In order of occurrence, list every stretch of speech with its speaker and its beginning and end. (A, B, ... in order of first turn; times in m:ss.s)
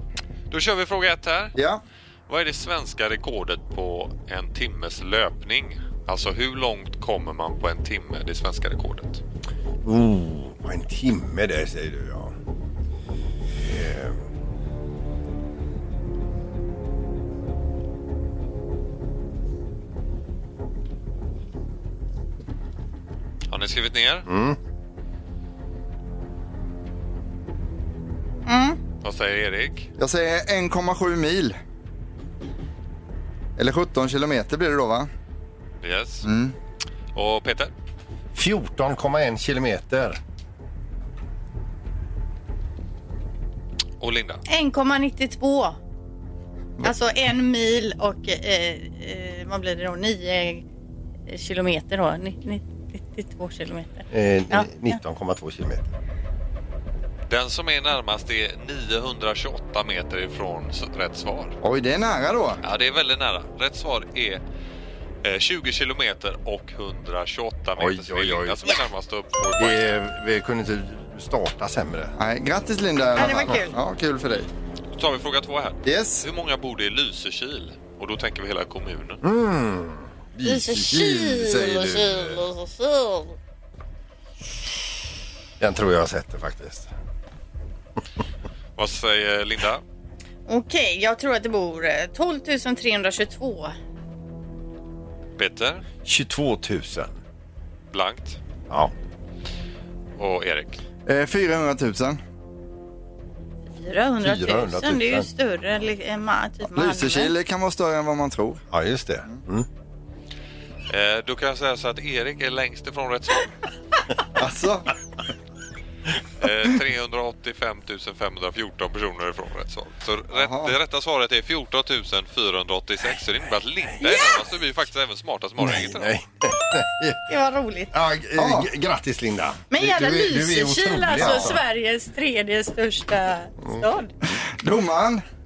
0:00.5-0:01.6 A
0:01.6-0:01.8 B
0:02.3-0:09.2 A
0:09.8-0:12.4 C
0:13.6-0:14.2 C
0:23.5-0:24.3 A
0:24.3-0:24.6 C
0:28.5-0:28.8 D
0:29.0-0:29.9 A
0:30.0-0:31.6 B
0:33.6-0:35.1 B
0:35.8-0:36.3 A
0:36.2-0:36.5 B
0:37.2-0:37.7 A
0:38.3-0:40.2 C
0:44.0-0:44.4 A
0:44.5-0:45.8 D
0:46.8-0:50.6 D
0:51.3-0:55.0 D
0:54.1-0:55.9 C
0:57.3-1:01.6 A
1:01.6-1:02.6 B
1:02.6-1:04.4 A
1:05.2-1:09.9 A
1:07.8-1:08.6 C
1:09.6-1:12.2 C
1:12.2-1:14.5 B
1:13.2-1:13.8 D
1:15.0-1:19.2 A
1:15.9-1:16.2 B
1:19.2-1:22.4 C
1:20.4-1:23.4 D
1:25.6-1:26.9 C
1:28.8-1:29.8 A
1:30.5-1:33.7 D
1:35.4-1:35.9 A
1:36.0-1:37.2 C
1:37.9-1:38.4 A
1:40.2-1:40.8 A
1:41.1-1:42.2 B
1:43.8-1:47.3 D
1:44.2-1:45.3 C
1:46.8-1:48.6 B
1:48.7-1:49.7 C
1:50.9-1:53.6 A
1:54.4-1:54.9 B
1:56.4-2:06.1 A
2:00.3-2:00.7 B
2:05.6-2:07.2 C
2:07.3-2:07.9 D
2:07.9-2:11.6 C
2:08.4-2:08.7 B
2:09.7-2:14.1 D
2:11.2-2:11.5 B
2:14.3-2:15.2 B